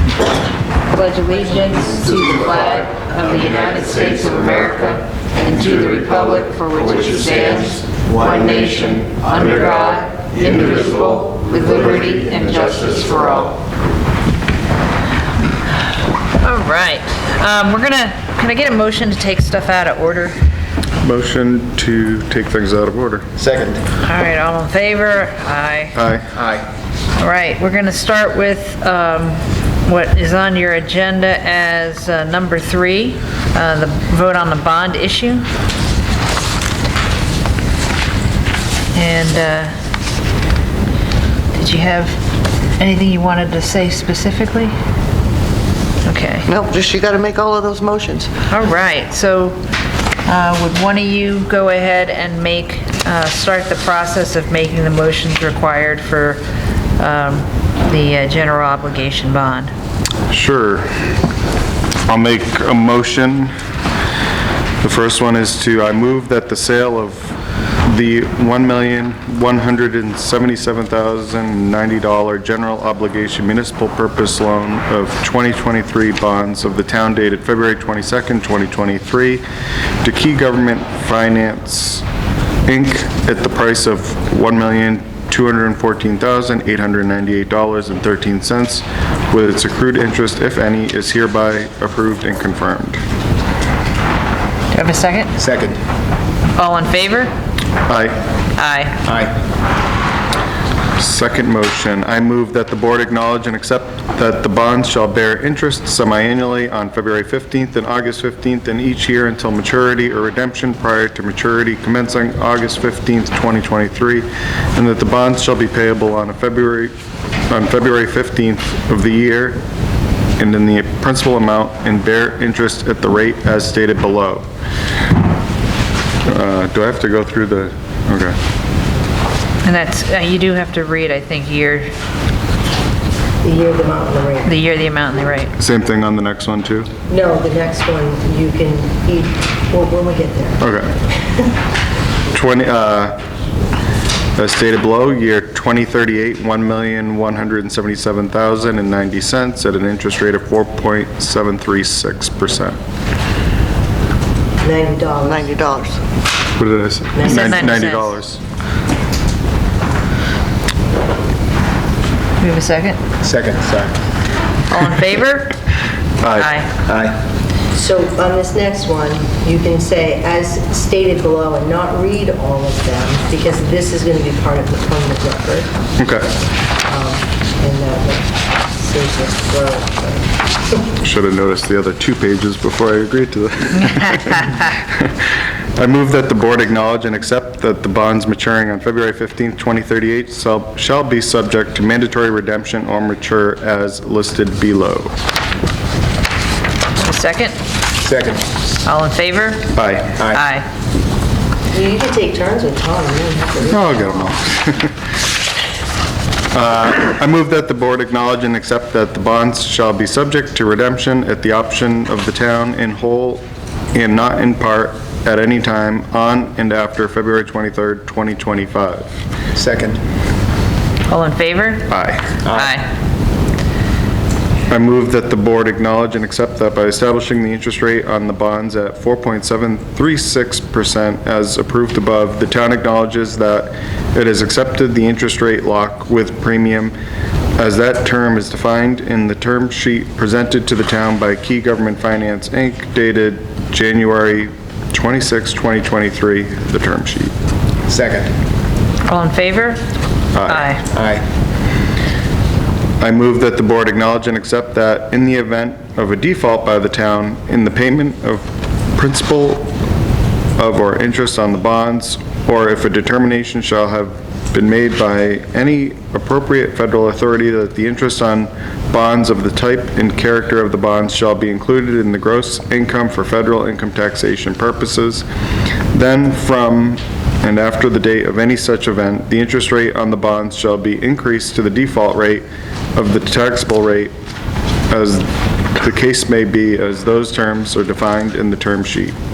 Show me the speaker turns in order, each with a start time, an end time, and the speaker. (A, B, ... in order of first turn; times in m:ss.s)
0:00.9-0:13.6 A
0:16.4-0:20.4 A
0:21.0-0:23.3 B
0:23.4-0:23.8 C
0:24.0-0:26.0 A
0:26.0-0:26.3 B
0:26.3-0:26.7 C
0:27.2-0:35.5 A
0:38.9-0:39.7 A
0:41.5-0:42.2 A
0:42.8-0:44.8 A
0:46.0-0:46.5 A
0:46.5-0:48.3 D
0:48.5-0:49.6 A
0:50.3-0:56.4 A
0:57.0-0:59.7 A
1:00.3-1:00.9 B
1:02.1-1:03.5 B
1:04.8-1:19.4 B
1:20.0-1:22.0 B
1:22.7-1:33.0 B
1:34.7-1:35.3 A
1:35.4-1:35.8 C
1:36.6-1:37.3 A
1:37.9-1:38.2 B
1:38.6-1:39.0 A
1:39.0-1:39.4 C
1:41.0-1:56.9 B
1:57.5-1:59.6 B
2:00.4-2:04.5 B
2:06.3-2:08.4 B
2:09.6-2:11.9 A
2:13.4-2:14.6 E
2:14.4-2:15.5 A
2:15.6-2:16.9 B
2:17.1-2:20.6 E
2:20.6-2:20.9 B
2:22.3-2:23.2 B
2:24.4-2:32.8 B
2:34.6-2:35.5 E
2:35.2-2:36.0 D
2:36.6-2:38.4 B
2:37.2-2:37.6 E
2:37.2-2:38.1 A
2:42.4-2:43.0 A
2:43.2-2:44.0 C
2:44.7-2:45.6 A
2:46.2-2:46.5 B
2:46.2-2:46.8 A
2:46.9-2:47.2 C
2:47.7-2:55.7 E
2:56.0-2:56.4 B
2:56.9-3:00.9 E
3:01.0-3:05.3 B
3:05.8-3:15.2 B
3:17.0-3:17.6 A
3:18.0-3:18.4 C
3:18.8-3:20.7 A
3:19.7-3:20.3 B
3:21.7-3:24.3 E
3:23.6-3:25.0 B
3:26.5-3:33.4 B
3:33.9-3:39.1 B
3:39.6-3:40.0 C
3:41.1-3:41.9 A
3:41.9-3:42.4 B
3:42.4-3:42.7 C
3:42.4-3:42.9 A
3:44.7-3:56.9 B
3:57.6-4:07.3 B
4:07.9-4:08.3 C
4:09.0-4:09.8 A
4:10.3-4:10.7 B
4:10.5-4:10.8 A
4:10.9-4:11.2 C
4:13.0-4:19.7 B
4:20.6-4:35.3 B
4:35.9-4:44.1 B
4:44.9-4:49.2 B